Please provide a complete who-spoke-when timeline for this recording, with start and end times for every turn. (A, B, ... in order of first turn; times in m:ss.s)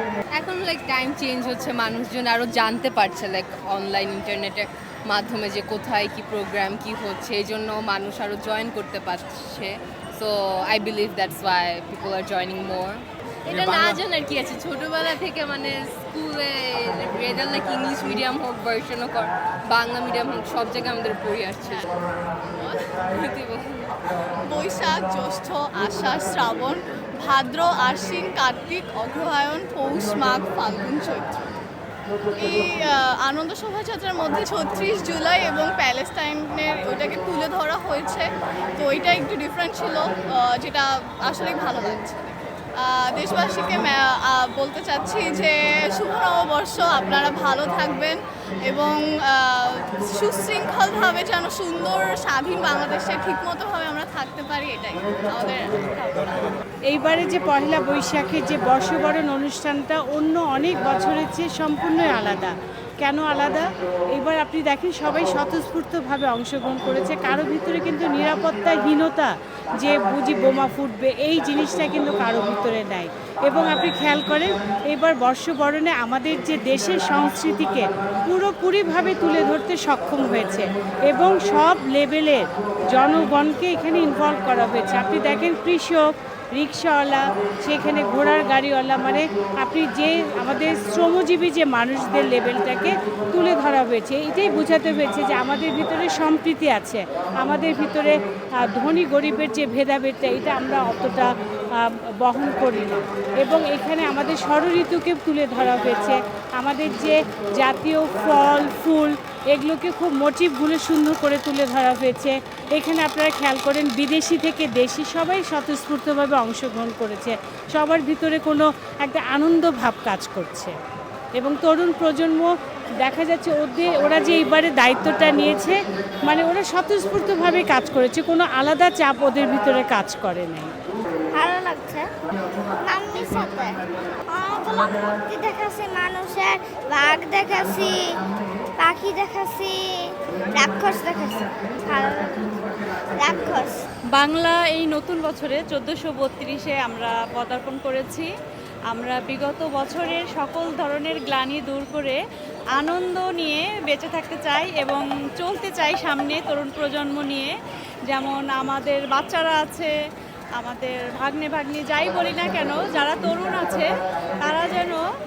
0:00.4-0:21.9 A
0:22.5-0:22.8 B
0:22.9-0:23.9 A
0:24.5-0:31.6 B
0:32.4-0:55.8 B
0:56.9-2:00.8 C
2:01.4-2:10.7 C
2:11.3-2:12.1 D
2:12.8-2:18.2 D
2:18.8-2:23.8 D
2:24.1-2:28.3 E
2:28.9-2:32.2 E
2:32.8-2:37.5 E
2:38.1-2:39.9 E
2:40.6-2:43.9 E
2:44.4-2:45.0 E